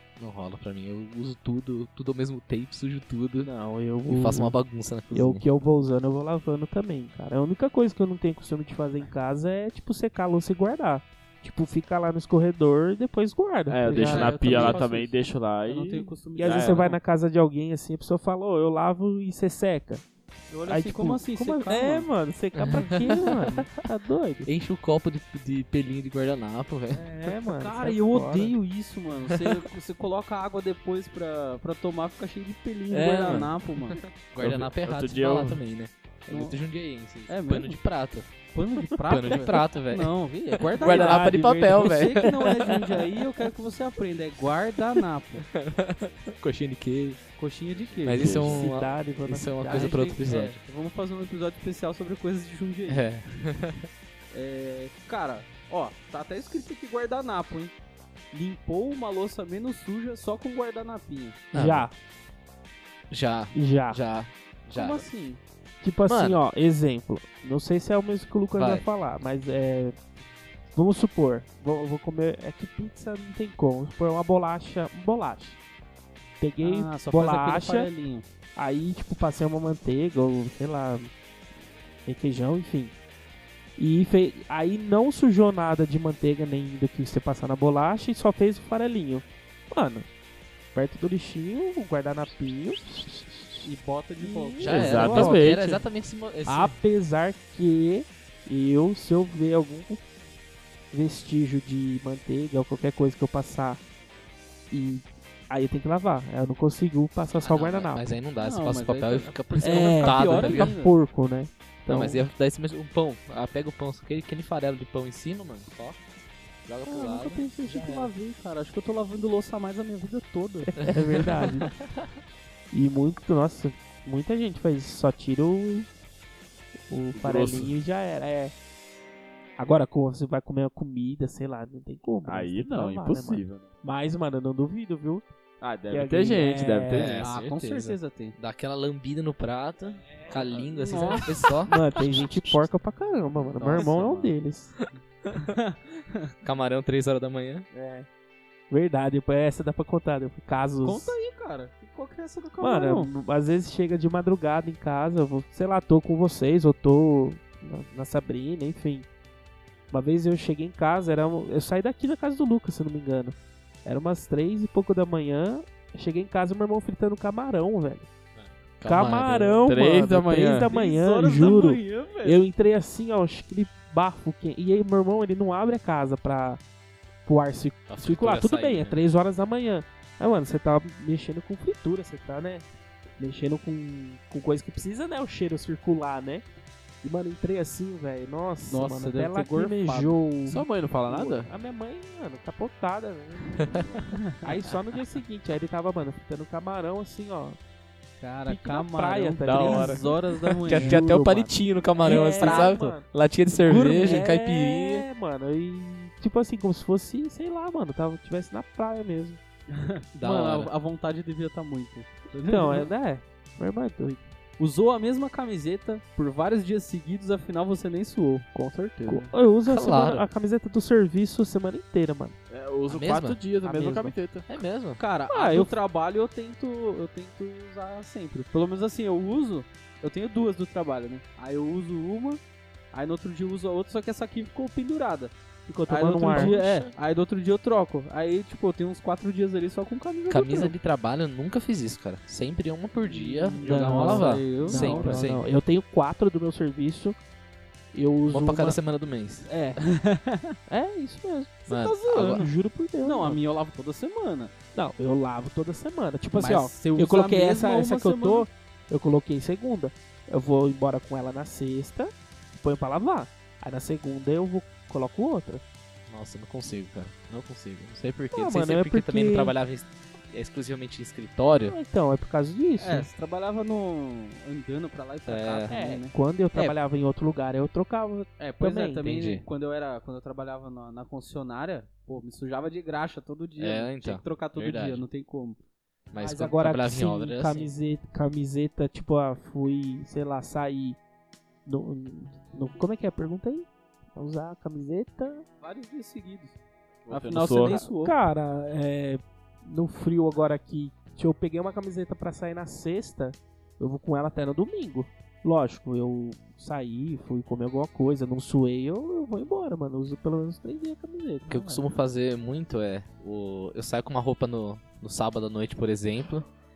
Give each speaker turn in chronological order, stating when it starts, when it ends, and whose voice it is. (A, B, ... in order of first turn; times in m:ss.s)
0:00.2-0:03.5 A
0:03.4-0:04.5 B
0:04.1-0:05.4 A
0:05.1-0:14.8 B
0:13.7-0:16.9 C
0:13.9-0:17.0 D
0:16.3-0:20.0 B
0:20.5-0:22.1 D
0:20.7-0:24.5 B
0:22.5-0:23.7 A
0:24.4-0:27.0 A
0:26.9-0:28.5 B
0:27.5-0:34.0 D
0:32.9-0:38.3 A
0:34.4-0:35.6 C
0:36.3-0:36.6 D
0:37.3-0:37.8 D
0:38.5-0:45.4 D
0:39.0-0:40.1 A
0:40.7-0:42.9 A
0:40.8-0:42.3 B
0:45.5-0:47.2 A
0:47.4-0:48.5 D
0:48.0-0:50.6 A
0:48.1-0:48.7 C
0:48.4-0:50.2 B
0:49.7-0:53.0 D
0:52.9-0:53.9 A
0:54.3-0:57.7 D
0:58.3-1:01.4 D
1:01.5-1:01.9 A
1:01.5-1:01.9 B
1:03.1-1:05.0 A
1:03.5-1:04.0 B
1:04.7-1:05.4 D
1:05.8-1:10.0 B
1:06.1-1:06.4 A
1:08.6-1:08.8 A
1:10.7-1:15.6 B
1:16.4-1:17.9 B
1:16.6-1:18.2 D
1:18.6-1:21.1 B
1:22.0-1:22.9 B
1:23.8-1:30.1 B
1:30.7-1:35.8 B
1:33.6-1:35.2 D
1:34.6-1:36.7 A
1:34.6-1:35.7 C
1:36.4-1:40.0 B
1:40.9-1:43.8 B
1:44.7-1:48.1 B
1:47.4-1:50.7 A
1:48.4-1:50.9 D
1:49.6-1:52.2 B
1:51.9-1:56.0 A
1:56.6-1:58.1 A
1:56.9-1:57.9 B
1:57.6-2:00.8 D
2:00.7-2:01.7 B
2:00.8-2:01.7 A
2:02.7-2:05.9 B
2:06.9-2:08.5 B
2:07.1-2:07.7 C
2:09.6-2:15.2 B
2:12.2-2:13.7 C
2:15.6-2:17.2 C
2:15.9-2:17.2 B
2:16.9-2:22.6 A
2:17.2-2:18.3 D
2:20.6-2:21.5 D
2:21.7-2:24.7 B
2:23.6-2:24.2 D
2:25.3-2:26.3 D
2:26.4-2:27.6 A
2:27.7-2:28.1 B
2:28.7-2:31.1 B
2:30.8-2:33.1 D
2:32.6-2:39.0 B
2:39.9-2:48.1 B
2:48.4-2:49.6 A
2:48.8-2:56.6 B
2:49.6-2:50.7 C
2:50.7-2:52.4 D
2:57.2-3:02.6 B
2:57.9-2:59.0 A
3:03.2-3:06.4 B
3:07.0-3:17.6 B
3:08.7-3:10.1 D
3:10.5-3:11.5 C
3:18.2-3:21.1 D
3:18.5-3:20.1 B
3:19.4-3:20.1 C
3:20.6-3:23.0 B
3:20.6-3:25.0 A
3:22.0-3:23.0 D
3:23.6-3:29.4 B
3:29.7-3:32.9 D
3:30.2-3:30.7 A
3:32.4-3:34.2 B
3:34.6-3:39.3 D
3:39.0-3:42.4 B
3:39.6-3:40.2 A
3:42.5-3:44.4 C
3:42.9-3:43.4 A
3:43.6-3:44.2 B
3:44.5-3:45.0 A
3:45.0-3:52.4 D
3:45.3-3:45.7 B
3:52.9-3:55.3 D
3:55.7-3:56.6 B
3:55.9-4:00.7 D
3:56.3-3:56.9 A
4:00.3-4:05.4 A
4:03.0-4:05.3 D
4:03.6-4:07.2 B
4:07.9-4:08.8 B
4:08.3-4:09.5 A
4:09.5-4:09.8 B
4:09.8-4:10.6 D
4:10.7-4:13.4 B
4:11.7-4:12.4 A
4:11.7-4:12.5 D
4:13.0-4:14.5 D
4:14.7-4:25.6 B
4:16.3-4:18.5 D
4:26.1-4:31.8 A
4:28.3-4:29.5 B
4:31.6-4:33.1 B
4:32.8-4:36.7 D
4:35.3-4:35.7 A
4:35.7-4:39.1 B
4:38.4-4:45.6 D
4:39.0-4:39.4 A
4:43.6-4:45.0 A
4:46.1-4:47.7 A
4:46.2-4:51.0 B
4:51.6-4:55.4 B
4:55.6-4:56.6 D
4:57.0-4:57.8 C
4:57.1-4:58.2 D
4:57.6-5:11.6 B
5:11.5-5:16.4 A
5:11.5-5:11.8 D